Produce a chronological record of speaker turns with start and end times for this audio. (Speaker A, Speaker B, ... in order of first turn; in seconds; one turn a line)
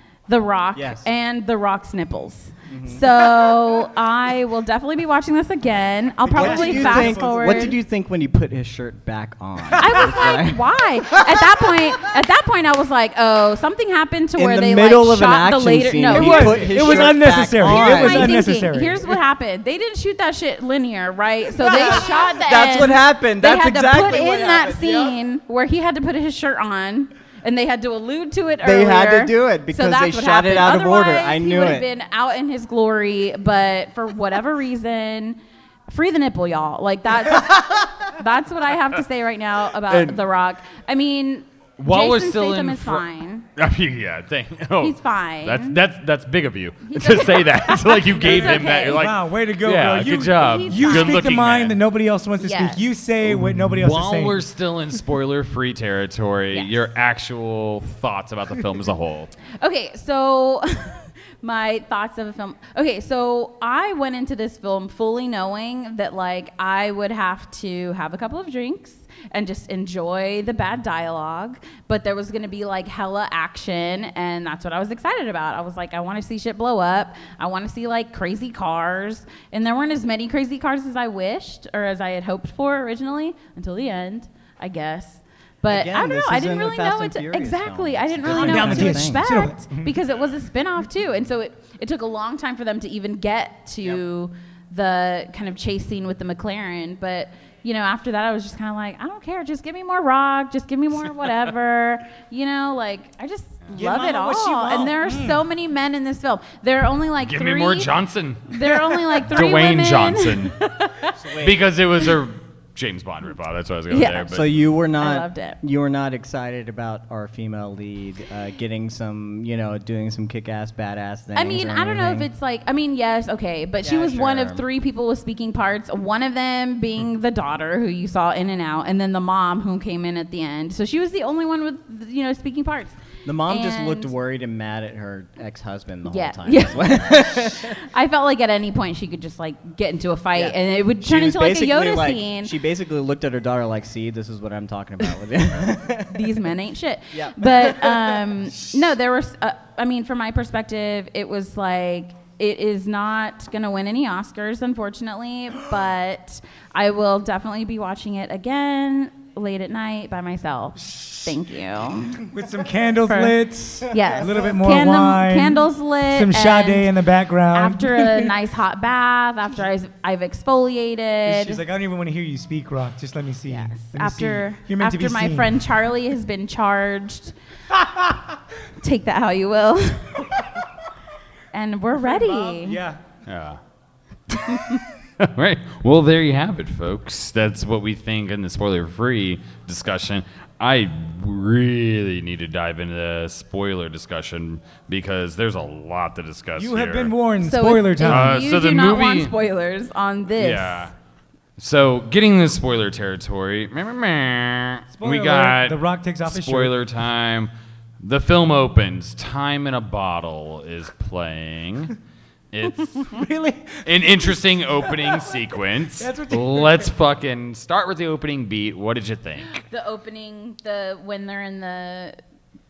Speaker A: 0.3-7.8
Speaker B: 0.7-1.1
Speaker B: 2.7-3.1
Speaker B: 6.3-12.0
Speaker C: 6.3-7.7
Speaker C: 9.7-10.0
Speaker A: 9.8-43.5
Speaker B: 14.4-18.4
Speaker C: 16.1-19.1
Speaker B: 21.6-25.2
Speaker B: 28.6-31.9
Speaker D: 39.9-40.2
Speaker D: 41.8-43.0
Speaker D: 43.5-51.8
Speaker A: 44.8-45.8
Speaker A: 46.8-49.0
Speaker C: 48.2-54.4
Speaker A: 50.3-51.2
Speaker A: 52.4-52.9
Speaker D: 53.2-59.3
Speaker A: 56.5-56.8
Speaker A: 59.6-107.9
Speaker B: 85.6-89.2
Speaker C: 88.2-90.0
Speaker C: 103.7-105.4
Speaker D: 107.2-108.5
Speaker A: 108.5-111.2
Speaker D: 109.1-110.5
Speaker B: 111.2-111.7
Speaker D: 111.4-114.5
Speaker A: 113.9-114.3
Speaker B: 114.2-122.3
Speaker A: 115.0-115.6
Speaker A: 121.3-134.1
Speaker B: 123.8-124.6
Speaker B: 133.2-137.8
Speaker A: 136.1-142.5
Speaker B: 140.3-146.4
Speaker A: 146.1-162.2
Speaker B: 147.1-148.3
Speaker C: 162.2-168.3
Speaker A: 163.1-163.3
Speaker A: 163.9-166.9
Speaker A: 167.5-171.6
Speaker C: 171.2-175.6
Speaker A: 173.5-177.3
Speaker C: 177.7-178.2
Speaker A: 178.8-180.3
Speaker A: 181.5-182.8
Speaker C: 181.9-183.0
Speaker D: 183.2-183.6
Speaker D: 184.3-197.1
Speaker C: 196.6-198.4
Speaker A: 197.4-200.9
Speaker D: 198.0-199.3
Speaker D: 200.4-200.9
Speaker D: 201.6-207.5
Speaker C: 204.9-206.7
Speaker D: 208.0-211.9
Speaker D: 212.5-213.2
Speaker C: 213.0-215.4
Speaker D: 213.8-219.6
Speaker C: 216.0-216.9
Speaker A: 219.5-222.2